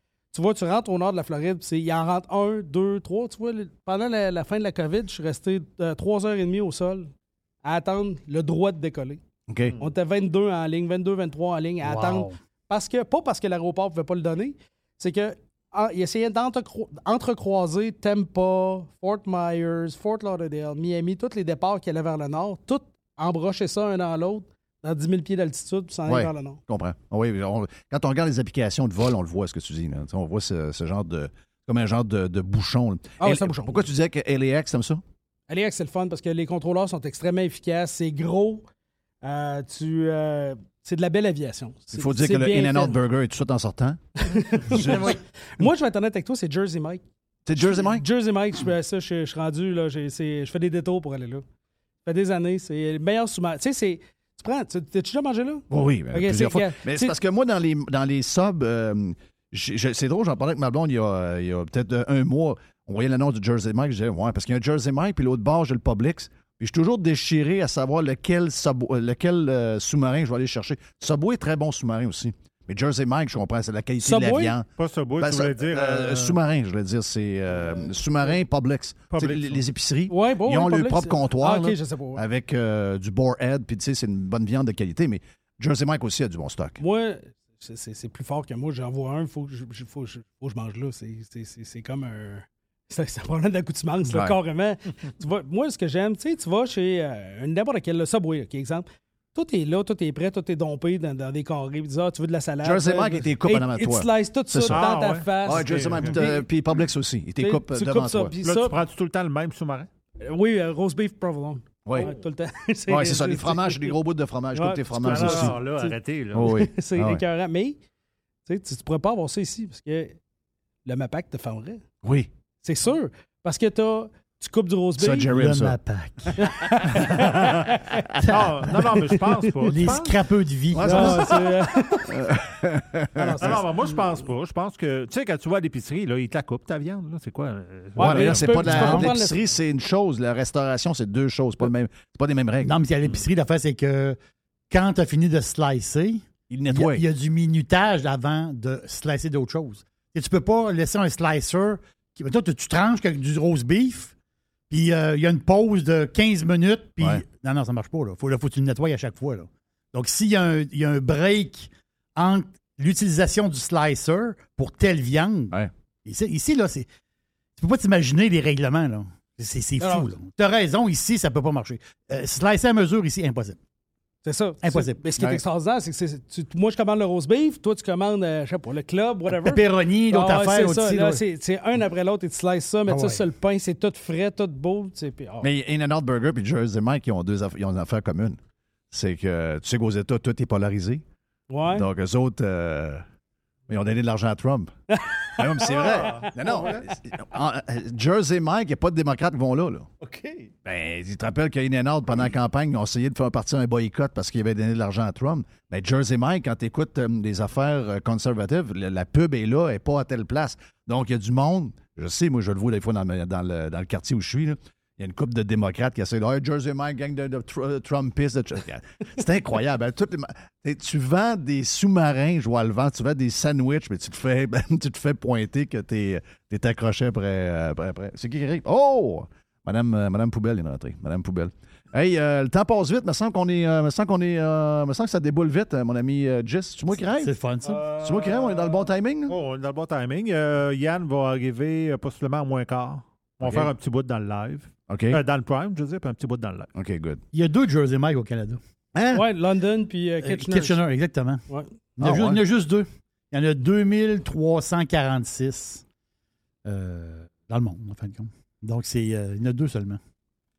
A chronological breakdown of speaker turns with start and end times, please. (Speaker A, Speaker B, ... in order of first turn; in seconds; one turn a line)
Speaker A: 0.3-7.1
Speaker A: 7.6-9.2
Speaker B: 9.5-9.8
Speaker A: 9.8-26.6
Speaker C: 11.8-12.3
Speaker B: 26.1-35.0
Speaker A: 33.2-33.9
Speaker A: 35.5-38.6
Speaker A: 39.2-43.0
Speaker B: 41.9-45.2
Speaker A: 44.2-47.0
Speaker B: 47.5-48.0
Speaker A: 47.6-51.4
Speaker A: 52.0-57.1
Speaker B: 55.7-74.7
Speaker A: 74.0-74.6
Speaker D: 74.8-76.4
Speaker B: 75.2-86.8
Speaker D: 79.1-79.6
Speaker A: 80.1-82.2
Speaker A: 86.8-106.4
Speaker B: 94.1-94.4
Speaker B: 102.6-108.3
Speaker D: 104.7-106.2
Speaker A: 107.4-108.8
Speaker D: 108.4-109.9
Speaker A: 110.2-114.0
Speaker B: 111.8-112.1
Speaker B: 112.9-115.6
Speaker A: 114.5-117.8
Speaker D: 115.0-116.5
Speaker B: 116.3-117.2
Speaker A: 118.5-120.2
Speaker A: 120.8-121.8
Speaker B: 122.0-122.3
Speaker A: 122.6-125.3
Speaker B: 125.0-125.8
Speaker C: 125.3-126.4
Speaker A: 126.4-128.2
Speaker C: 128.2-129.1
Speaker D: 128.3-130.2
Speaker A: 128.7-129.5
Speaker C: 129.6-131.4
Speaker B: 130.8-131.2
Speaker D: 130.8-131.4
Speaker A: 130.8-132.1
Speaker B: 132.0-133.6
Speaker A: 133.1-133.9
Speaker D: 133.4-138.4
Speaker A: 138.0-139.4
Speaker B: 138.0-142.8
Speaker C: 138.4-139.1
Speaker C: 142.6-144.2
Speaker C: 144.7-154.1
Speaker B: 146.5-147.0
Speaker C: 154.7-166.9
Speaker B: 157.0-157.2
Speaker C: 167.6-173.6
Speaker A: 169.8-170.1
Speaker A: 174.2-185.5
Speaker C: 174.6-175.0
Speaker C: 179.3-181.2
Speaker C: 182.9-183.2
Speaker B: 185.4-188.4
Speaker B: 188.9-191.0
Speaker A: 191.5-191.9
Speaker B: 191.7-193.0
Speaker B: 193.7-199.9
Speaker A: 194.9-196.3
Speaker D: 195.8-196.8
Speaker D: 200.0-200.5
Speaker B: 200.6-237.3
Speaker C: 237.2-237.8
Speaker D: 237.6-246.7
Speaker B: 237.9-239.4
Speaker B: 243.4-243.7
Speaker B: 244.9-245.2
Speaker B: 246.7-247.2
Speaker C: 247.3-248.6
Speaker B: 248.9-249.2
Speaker A: 249.1-250.8
Speaker C: 250.2-251.4
Speaker C: 252.0-255.8
Speaker B: 252.0-252.4
Speaker C: 256.6-260.0